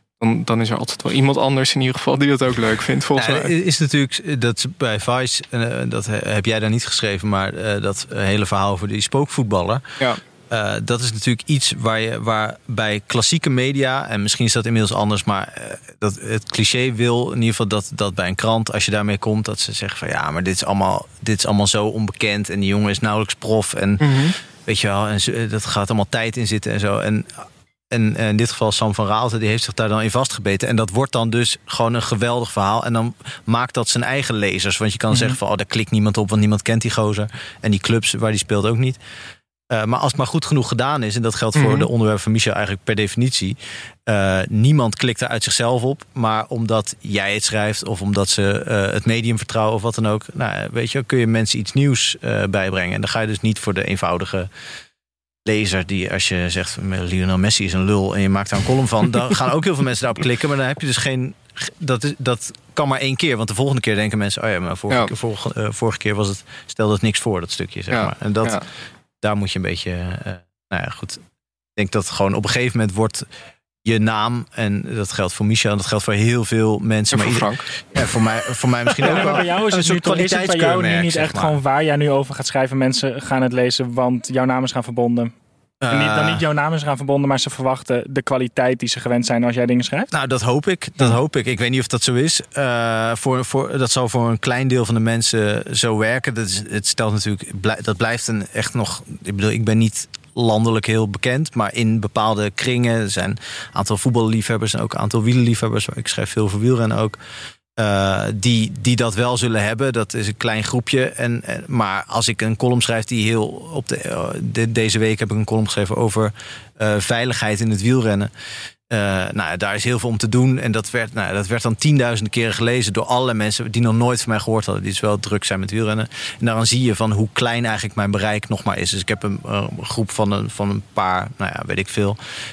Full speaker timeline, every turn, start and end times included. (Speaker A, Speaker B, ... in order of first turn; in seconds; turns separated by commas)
Speaker A: 0.2-3.5, Speaker B: 3.2-9.8, Speaker B: 10.5-39.0, Speaker A: 24.0-24.3, Speaker B: 39.7-54.5, Speaker A: 41.5-41.9, Speaker B: 55.4-68.6, Speaker A: 67.9-68.6, Speaker B: 69.2-71.2, Speaker B: 71.8-73.3, Speaker B: 73.8-81.6, Speaker A: 77.1-77.6, Speaker C: 79.0-85.3, Speaker B: 85.8-86.4, Speaker C: 85.9-90.1, Speaker B: 90.1-107.2, Speaker B: 107.8-118.3, Speaker B: 118.9-132.2